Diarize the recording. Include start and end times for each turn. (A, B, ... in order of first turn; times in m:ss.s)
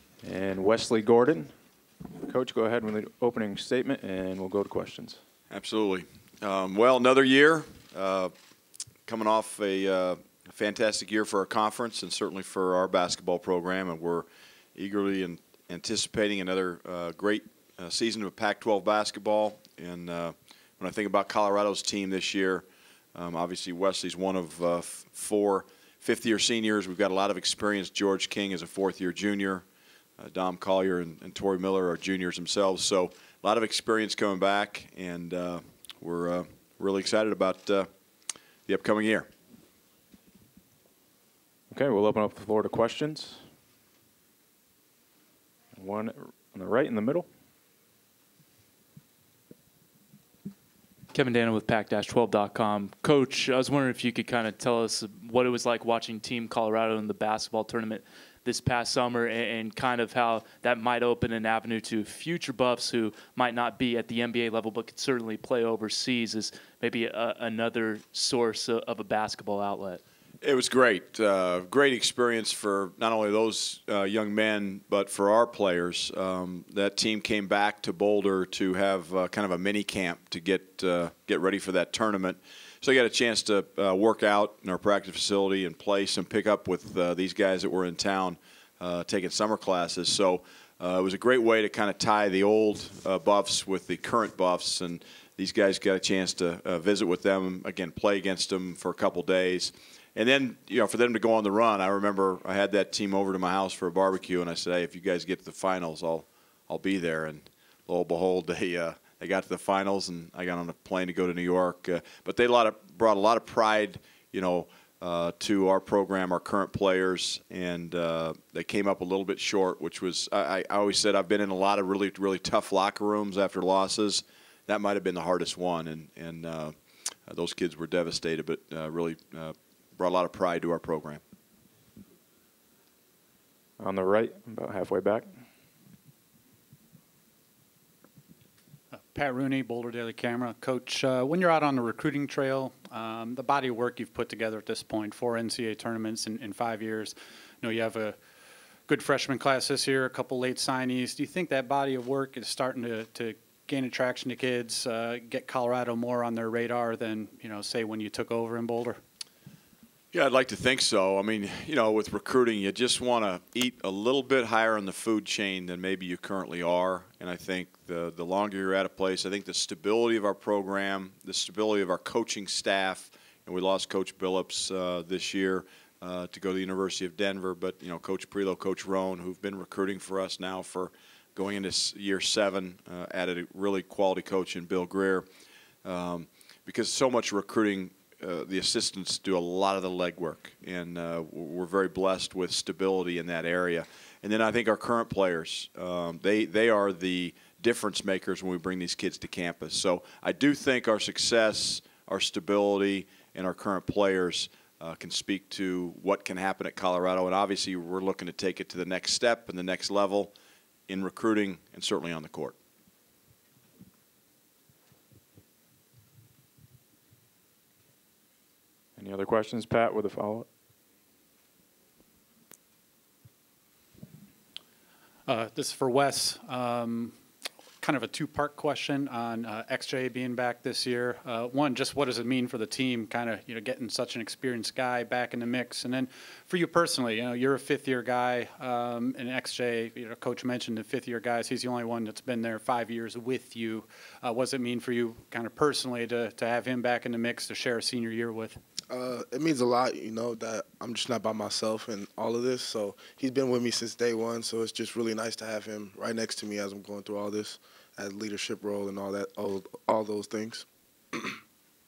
0:00.2-0:01.5 A
0:02.2-0:05.2 A
0:05.5-0:08.3 B
0:09.1-0:29.6 B
0:30.2-0:37.9 B
0:38.7-0:39.3 B
0:41.7-0:43.4 A
0:45.8-0:47.3 A
0:51.1-1:10.0 C
1:10.4-2:06.8 B
2:07.3-2:11.2 B
2:13.8-2:15.3 A
2:18.9-2:28.2 D
2:28.9-2:39.0 D
2:40.1-3:05.3 B
3:05.8-3:30.3 B
3:30.9-3:32.6 B
3:39.0-3:40.5 A
3:45.3-3:47.2 D
3:47.8-4:08.6 D
4:08.9-4:21.4 E